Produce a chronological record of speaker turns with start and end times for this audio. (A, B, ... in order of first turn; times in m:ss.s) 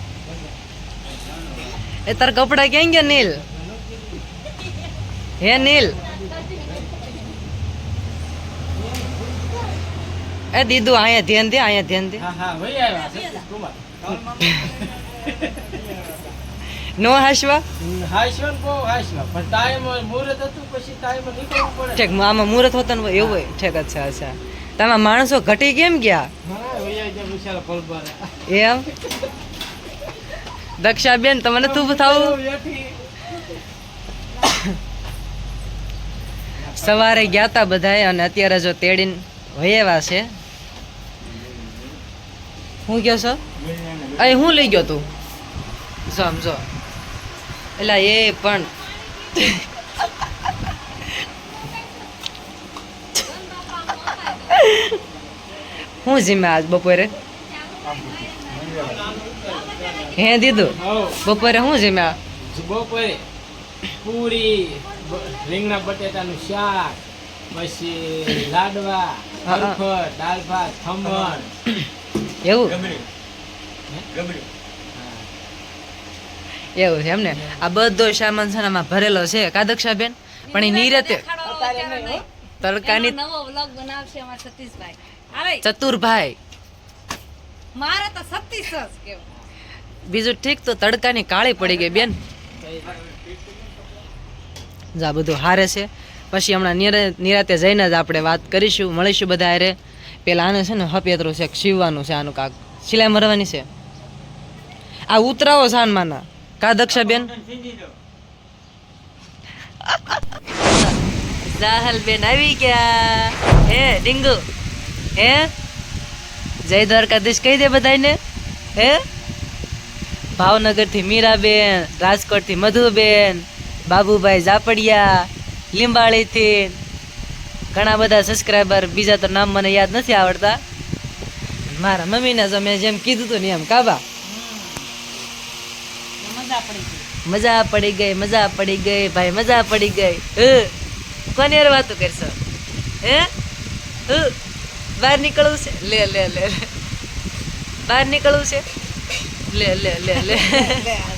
0:02.1-0:03.4 A
0:03.5-0:04.1 B
0:05.4-0:06.0 A
0:06.6-0:06.8 B
0:08.8-0:09.7 B
0:10.5-0:12.2 A
0:12.2-0:16.2 B
0:17.0-0:17.6 A
0:17.8-0:22.1 B
0:22.0-0:26.3 A
0:23.2-0:23.5 B
0:26.4-0:28.3 B
0:28.5-0:28.9 A
0:30.8-0:32.3 A
0:31.5-0:33.0 B
0:36.7-0:37.4 B
0:36.8-0:40.3 A
0:42.9-0:43.4 A
0:44.2-0:45.0 A
0:46.1-0:46.6 A
0:47.8-0:48.7 A
0:49.4-0:49.6 A
0:53.2-0:54.6 C
0:54.5-0:54.9 A
0:56.0-0:57.1 A
0:57.9-0:58.8 C
0:57.9-0:59.1 B
0:59.4-1:00.1 C
1:00.2-1:00.7 A
1:00.8-1:01.3 B
1:01.2-1:02.2 A
1:02.4-1:03.2 B
1:04.0-1:07.0 B
1:07.5-1:11.5 B
1:09.4-1:09.8 A
1:12.4-1:12.8 A
1:14.9-1:15.3 B
1:16.8-1:21.2 A
1:20.5-1:22.2 C
1:21.4-1:22.2 B
1:22.6-1:23.1 A
1:22.8-1:25.6 C
1:25.6-1:26.4 A
1:27.7-1:29.3 C
1:30.1-1:32.2 A
1:32.6-1:32.9 B
1:35.0-1:43.7 A
1:45.1-1:47.3 A
1:49.8-1:50.2 A
1:50.7-1:51.0 A
1:51.6-1:54.4 A
1:55.2-1:55.5 A
1:56.6-1:58.2 A
1:58.8-1:59.0 A
2:00.4-2:06.8 A
2:07.7-2:10.6 A
2:11.7-2:14.0 A
2:16.2-2:17.0 C
2:17.2-2:20.7 A
2:21.3-2:22.4 A
2:23.0-2:23.3 A
2:24.1-2:24.3 A
2:25.0-2:26.7 A
2:27.8-2:28.6 A
2:29.5-2:30.9 A